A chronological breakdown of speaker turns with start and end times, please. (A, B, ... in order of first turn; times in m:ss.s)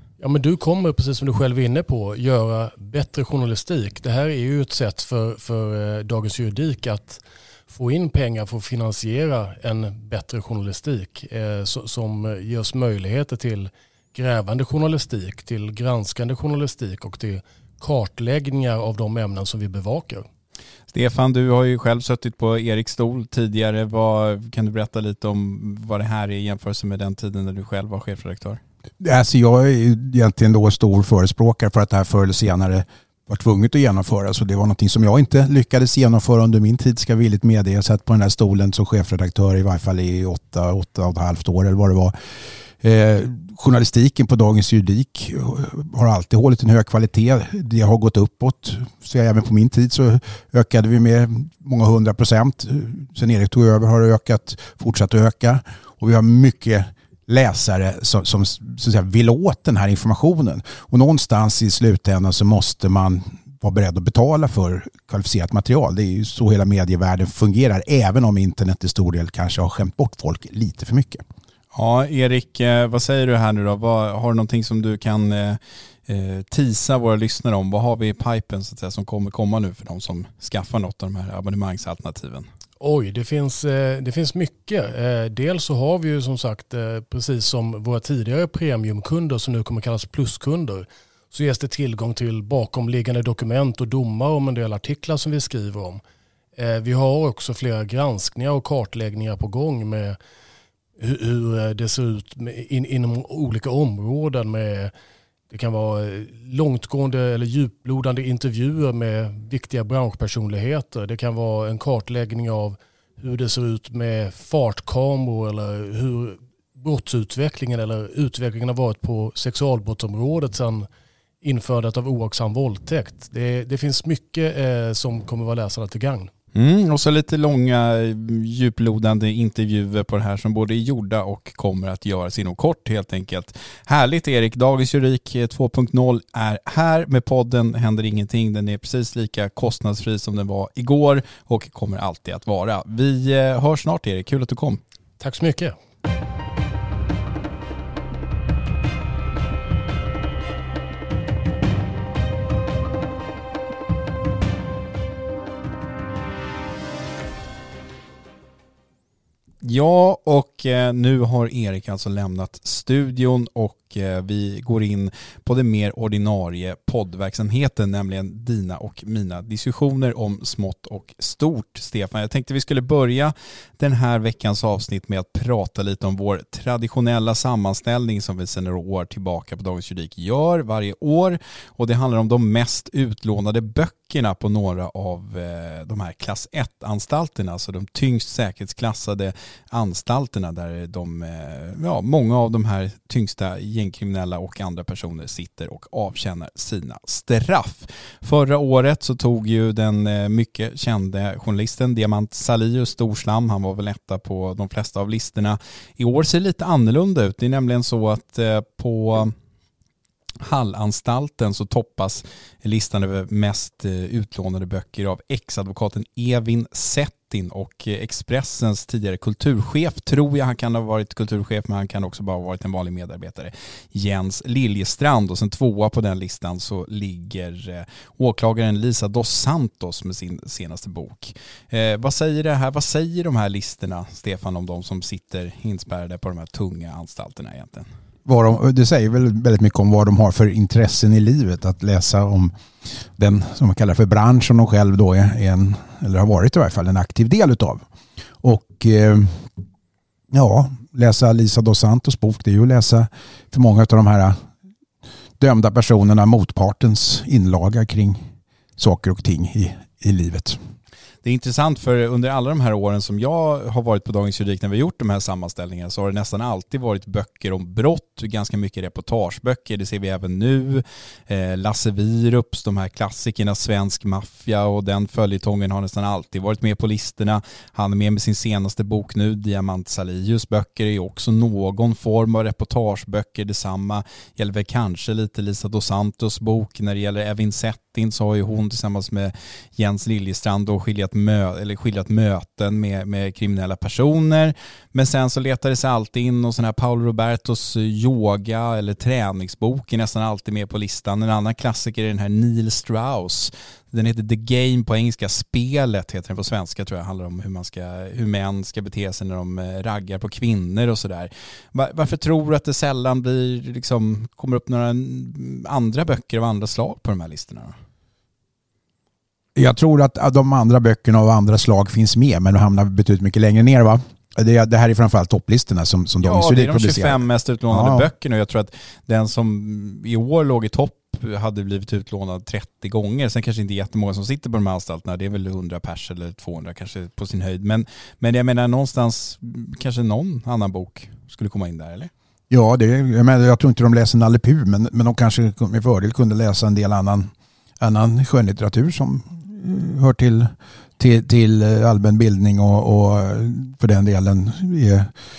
0:00.2-0:20.2 A
0:20.9-0:28.6 B
0:29.0-0:42.1 C
0:42.8-1:11.2 C
1:11.7-1:22.5 B
1:22.8-1:36.0 A
1:36.6-1:40.2 A
1:41.0-1:44.9 A
1:45.5-2:00.9 A
2:01.4-2:06.3 A
2:06.5-2:24.8 B
2:25.2-2:25.8 A
2:39.6-3:29.3 B
3:30.4-3:57.9 B
3:58.2-4:02.5 C
4:03.2-4:07.8 C
4:08.4-4:09.5 C
4:10.3-4:14.4 C
4:15.4-4:20.6 C
4:21.2-5:17.8 B
5:19.5-5:28.1 C
5:26.2-5:42.1 B
5:42.5-5:55.1 C